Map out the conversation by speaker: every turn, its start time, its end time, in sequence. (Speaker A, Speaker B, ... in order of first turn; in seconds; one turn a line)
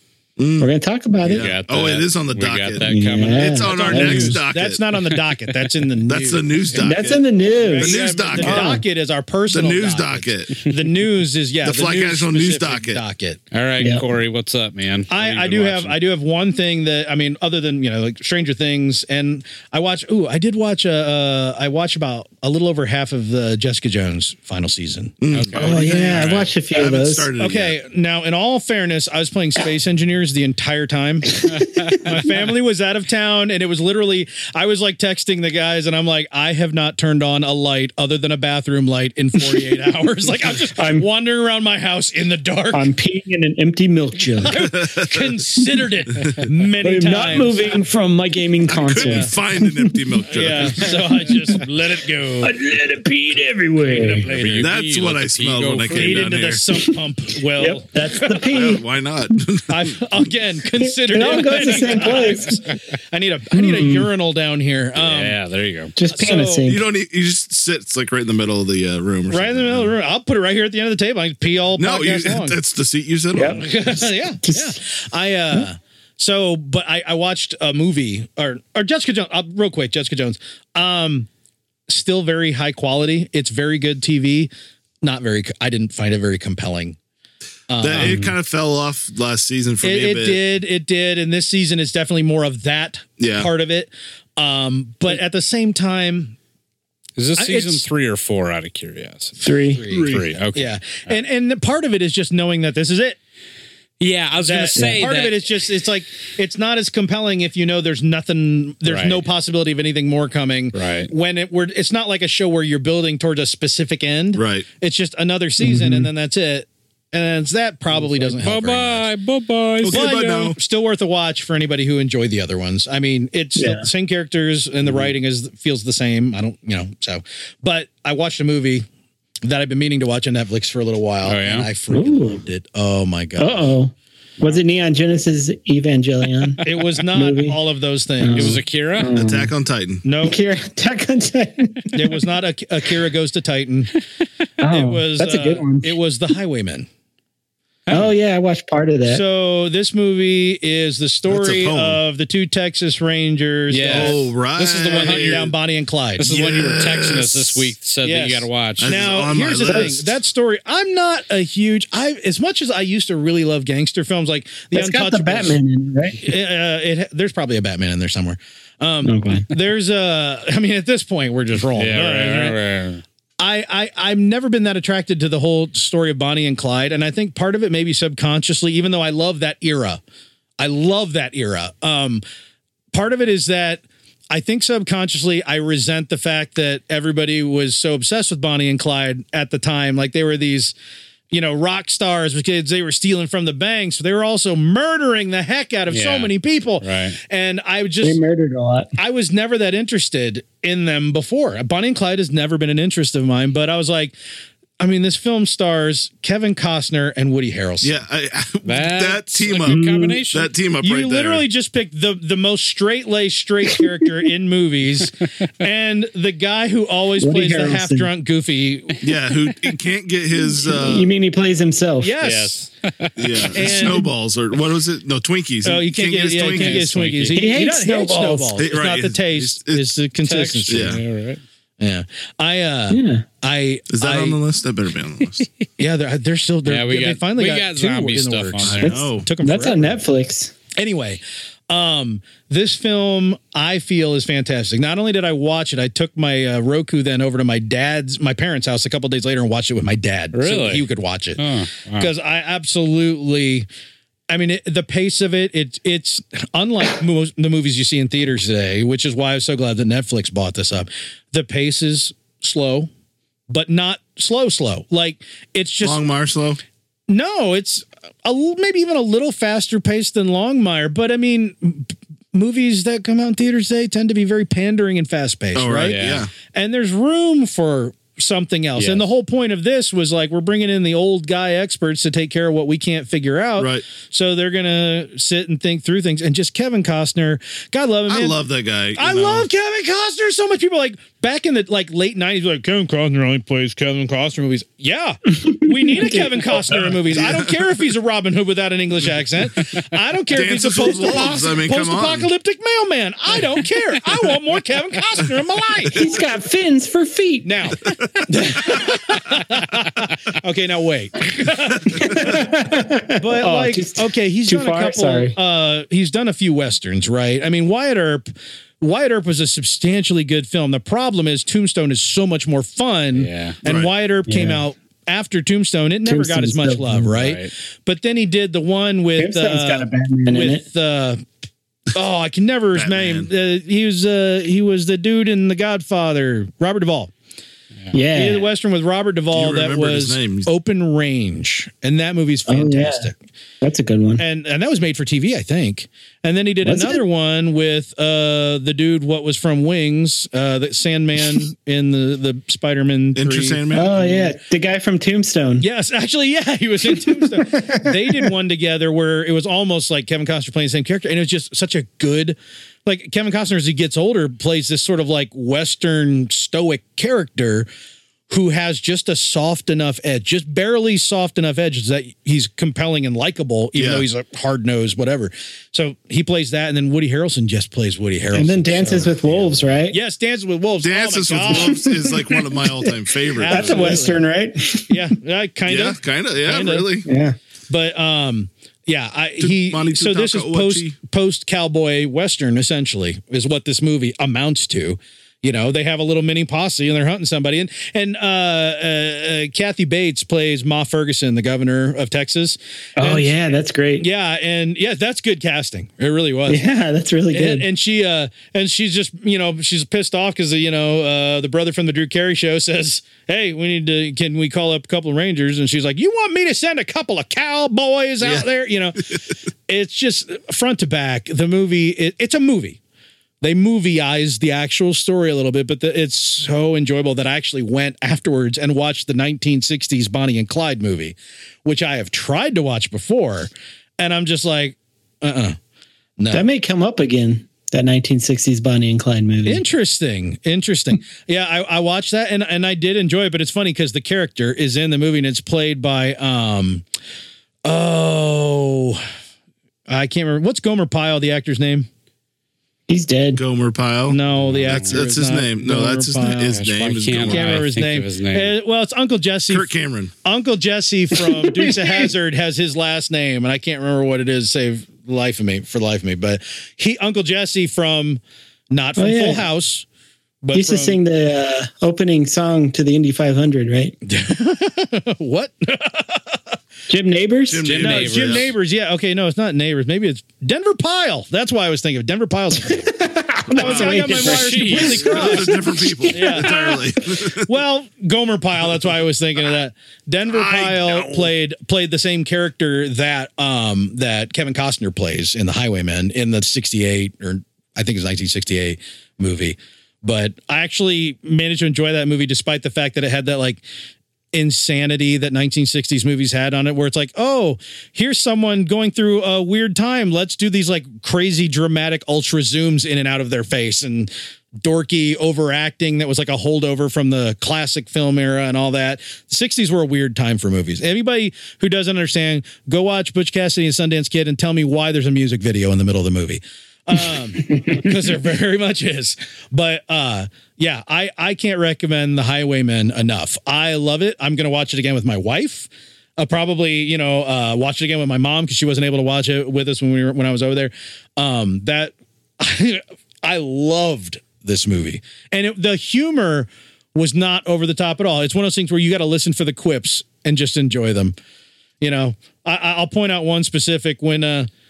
Speaker A: 0.4-0.7
Speaker B: 0.6-1.5
Speaker A: 1.2-4.8
Speaker C: 1.3-3.8
Speaker B: 2.9-4.4
Speaker D: 3.6-6.5
Speaker C: 5.2-5.7
Speaker A: 6.0-8.8
Speaker B: 6.8-8.8
Speaker D: 7.6-13.4
Speaker A: 9.5-10.6
Speaker A: 11.6-13.0
Speaker C: 13.5-16.0
Speaker D: 15.1-26.3
Speaker A: 25.2-27.8
Speaker C: 25.3-26.5
Speaker B: 25.6-27.3
Speaker D: 27.4-42.9
Speaker C: 31.6-32.0
Speaker B: 40.6-41.1
Speaker B: 42.7-44.6
Speaker D: 44.4-47.7
Speaker A: 44.5-45.3
Speaker B: 46.8-49.9
Speaker A: 48.6-50.9
Speaker D: 48.9-49.3
Speaker D: 50.3-52.5
Speaker B: 52.4-54.3
Speaker D: 53.9-54.6
Speaker C: 54.2-56.4
Speaker A: 54.3-56.6
Speaker D: 55.9-57.9
Speaker B: 57.6-58.8
Speaker A: 58.3-60.0
Speaker D: 59.7-65.4
Speaker B: 60.9-62.6
Speaker B: 63.5-64.1
Speaker C: 65.0-65.9
Speaker B: 66.0-66.8
Speaker D: 66.1-66.7
Speaker A: 66.7-69.9
Speaker D: 69.3-72.6
Speaker A: 71.8-73.7
Speaker B: 73.3-73.6
Speaker D: 73.5-81.3
Speaker B: 74.4-74.8
Speaker D: 81.9-84.5
Speaker D: 85.0-87.0
Speaker D: 87.7-88.2
Speaker A: 87.8-90.4
Speaker C: 87.9-88.3
Speaker D: 89.8-96.3
Speaker A: 93.2-93.5
Speaker C: 97.2-101.2
Speaker D: 97.3-97.8
Speaker B: 99.4-99.8
Speaker D: 99.7-103.2
Speaker C: 104.0-105.5
Speaker D: 104.4-119.1
Speaker B: 104.8-105.0
Speaker C: 108.8-109.2
Speaker C: 110.7-111.1
Speaker A: 114.3-114.7
Speaker B: 115.6-116.1
Speaker C: 117.9-120.1
Speaker A: 119.8-120.6
Speaker D: 119.9-128.8
Speaker B: 123.5-123.8
Speaker C: 124.8-125.1
Speaker D: 129.4-133.7
Speaker C: 131.2-131.7
Speaker B: 131.9-132.4
Speaker B: 133.4-137.6
Speaker D: 136.6-138.6
Speaker B: 138.2-139.5
Speaker C: 138.3-139.1
Speaker A: 139.1-140.0
Speaker D: 140.0-140.4
Speaker B: 140.2-142.2
Speaker D: 141.9-143.9
Speaker B: 144.6-145.9
Speaker D: 144.7-146.9
Speaker C: 147.9-148.1
Speaker B: 147.9-149.2
Speaker D: 149.1-154.2
Speaker A: 151.3-152.0
Speaker C: 153.7-155.5
Speaker A: 153.9-155.5
Speaker D: 154.9-156.3
Speaker C: 156.2-159.0
Speaker A: 156.2-157.7
Speaker D: 158.0-165.6
Speaker A: 158.8-160.2
Speaker B: 164.7-166.2
Speaker D: 166.2-172.6
Speaker B: 169.0-169.5
Speaker C: 171.7-173.0
Speaker D: 173.4-180.0
Speaker D: 180.6-182.2
Speaker D: 182.9-190.7
Speaker D: 191.3-198.2
Speaker C: 195.9-197.2
Speaker B: 198.0-198.9
Speaker D: 199.0-204.2
Speaker D: 204.8-208.0
Speaker A: 207.8-211.4
Speaker C: 208.6-210.5
Speaker B: 209.7-210.2
Speaker D: 210.8-219.0
Speaker B: 217.2-218.1
Speaker A: 219.0-221.1
Speaker B: 220.5-222.1
Speaker D: 222.0-222.6
Speaker C: 222.2-223.7
Speaker A: 223.2-226.9
Speaker D: 223.5-224.1
Speaker D: 225.6-231.0
Speaker C: 226.5-227.4
Speaker B: 227.3-228.6
Speaker A: 228.6-229.9
Speaker C: 230.2-231.4
Speaker A: 230.7-231.0
Speaker D: 231.8-234.4
Speaker B: 232.9-233.2
Speaker A: 233.9-235.5
Speaker D: 235.8-240.0
Speaker C: 236.6-239.0
Speaker A: 238.6-239.3
Speaker B: 238.8-240.5
Speaker D: 240.8-251.4
Speaker C: 250.3-250.8
Speaker C: 251.4-252.1
Speaker D: 251.9-253.7
Speaker D: 254.3-262.9
Speaker D: 263.5-266.0
Speaker A: 265.8-266.6
Speaker D: 267.1-288.4
Speaker A: 275.5-276.3
Speaker C: 275.9-276.2
Speaker C: 278.8-279.0
Speaker A: 283.6-283.8
Speaker A: 288.1-289.5
Speaker D: 288.9-306.1
Speaker B: 295.8-296.7
Speaker A: 297.0-297.6
Speaker A: 300.3-302.3
Speaker B: 305.9-307.5
Speaker D: 307.4-312.4
Speaker B: 311.9-315.4
Speaker D: 313.2-318.3
Speaker D: 318.8-331.2
Speaker C: 323.1-323.6
Speaker A: 323.6-323.9
Speaker B: 324.3-324.6
Speaker B: 326.1-327.1
Speaker C: 327.1-327.5
Speaker B: 329.2-330.6
Speaker D: 331.9-337.1
Speaker A: 332.7-333.3
Speaker B: 337.9-338.5
Speaker D: 338.1-343.2
Speaker A: 339.3-340.5
Speaker B: 342.5-343.1
Speaker B: 343.6-344.2
Speaker D: 344.2-354.3
Speaker B: 346.6-347.0
Speaker A: 353.1-354.0
Speaker B: 353.7-355.6
Speaker D: 355.6-367.7
Speaker B: 356.9-358.1
Speaker D: 368.3-381.9
Speaker A: 373.8-374.1
Speaker B: 378.3-380.0
Speaker A: 380.8-384.0
Speaker B: 381.5-382.9
Speaker D: 383.3-384.2
Speaker B: 383.4-385.0
Speaker D: 384.9-386.9
Speaker A: 385.7-387.1
Speaker B: 387.0-387.4
Speaker D: 387.7-403.4
Speaker A: 389.4-390.9
Speaker B: 403.0-404.1
Speaker D: 404.0-406.6
Speaker B: 406.5-407.6
Speaker D: 407.3-419.1
Speaker D: 419.7-422.8
Speaker D: 423.4-435.6
Speaker D: 436.2-436.4
Speaker B: 436.3-439.6
Speaker D: 439.4-446.8
Speaker D: 447.6-449.1
Speaker D: 449.9-451.9
Speaker B: 452.9-453.4
Speaker A: 453.3-457.7
Speaker D: 454.1-456.6
Speaker C: 454.4-455.0
Speaker C: 456.5-458.5
Speaker D: 457.3-459.7
Speaker A: 459.5-460.1
Speaker D: 460.2-469.9
Speaker B: 461.2-462.1
Speaker B: 469.0-469.4
Speaker D: 470.4-471.0
Speaker B: 470.5-473.9
Speaker D: 474.0-476.4
Speaker B: 476.9-477.7
Speaker A: 477.5-478.5
Speaker C: 477.6-478.5
Speaker D: 477.8-482.9
Speaker B: 482.8-486.9
Speaker D: 483.5-485.5
Speaker A: 483.6-484.1
Speaker C: 483.6-485.3
Speaker A: 484.7-487.5
Speaker D: 486.1-486.6
Speaker D: 487.2-503.6
Speaker A: 490.3-491.3
Speaker D: 504.3-551.1
Speaker D: 551.8-554.5